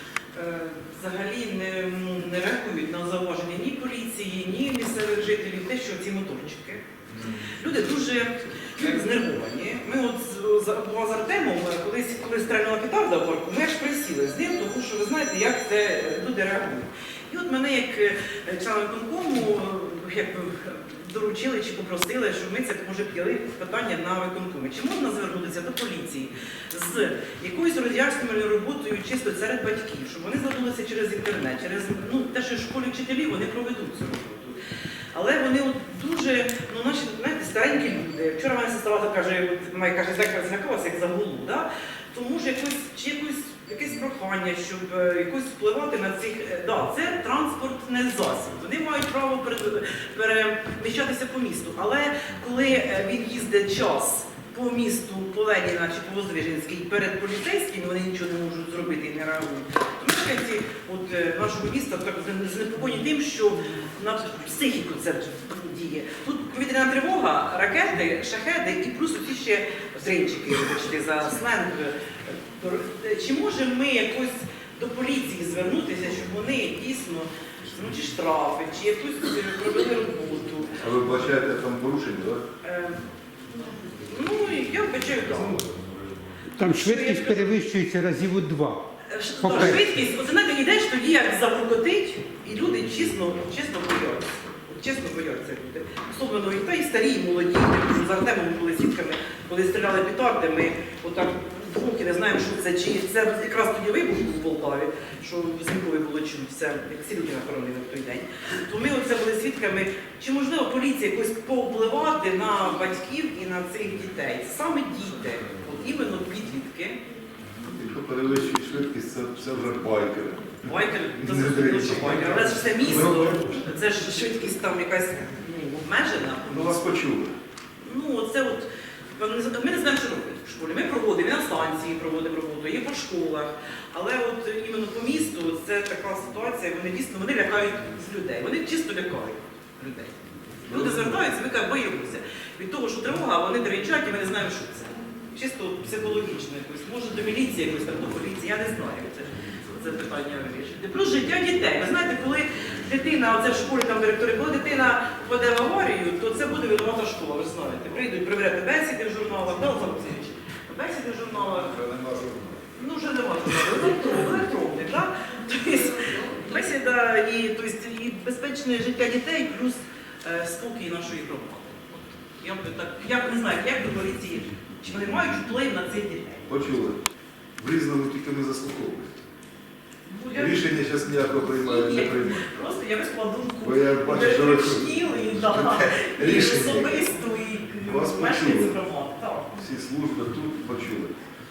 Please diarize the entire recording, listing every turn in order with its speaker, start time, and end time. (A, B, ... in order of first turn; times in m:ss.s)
0:00.3-0:06.8 A
0:07.1-0:07.4 B
0:07.5-0:34.6 A
0:35.1-1:20.8 A
1:20.8-1:22.4 B
1:22.6-1:23.0 A
1:24.0-1:25.7 A
1:26.6-1:28.8 C
1:26.6-1:27.8 A
1:29.0-1:57.0 A
1:29.4-1:29.8 C
1:57.6-2:00.6 B
2:00.6-2:06.9 A
2:01.2-2:02.2 B
2:02.8-2:03.5 B
2:06.5-2:07.3 B
2:07.8-2:41.8 A
2:20.6-2:21.0 B
2:41.6-2:42.6 B
2:42.7-2:56.5 A
2:56.5-2:57.0 B
2:57.6-2:59.1 B
3:00.1-3:00.8 A
3:00.3-3:02.5 B
3:01.5-3:09.5 A
3:03.6-3:07.0 B
3:07.8-3:08.8 B
3:09.5-3:11.1 B